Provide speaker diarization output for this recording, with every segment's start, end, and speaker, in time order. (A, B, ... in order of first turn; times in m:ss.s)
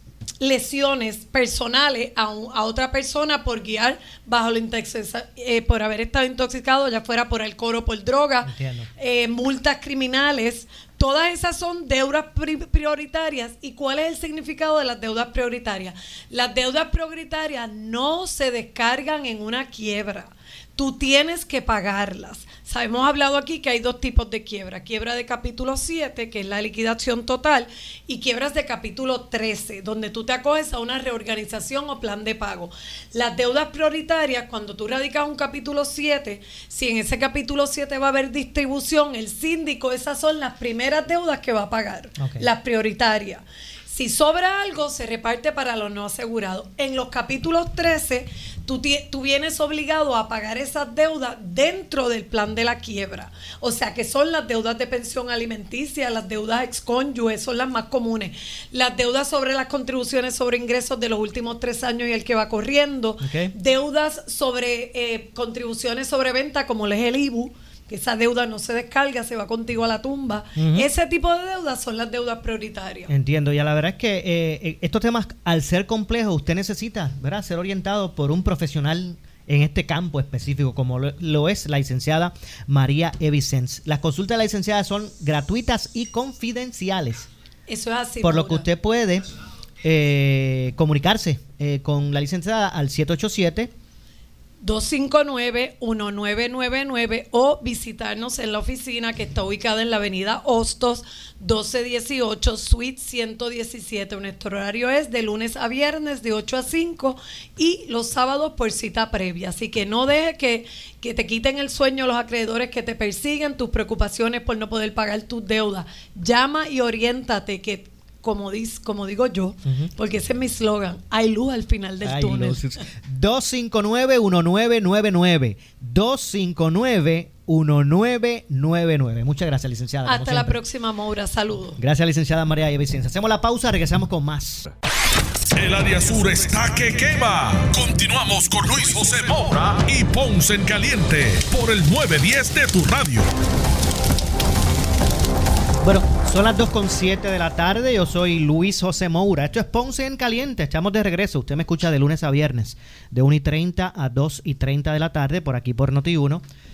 0:00.4-1:13.1 A
0:08.4-0:08.9 B
0:42.2-0:42.5 B
1:03.2-1:03.5 B
1:10.6-1:10.9 B
1:13.1-1:27.3 B
1:27.7-1:28.6 A
1:28.2-1:29.2 B
1:29.8-1:33.7 B
1:34.6-2:02.8 A
1:59.6-1:59.9 B
2:02.0-2:10.6 B
2:10.0-2:11.8 A
2:11.8-2:14.7 B
2:15.6-2:23.3 C
2:25.8-2:36.4 B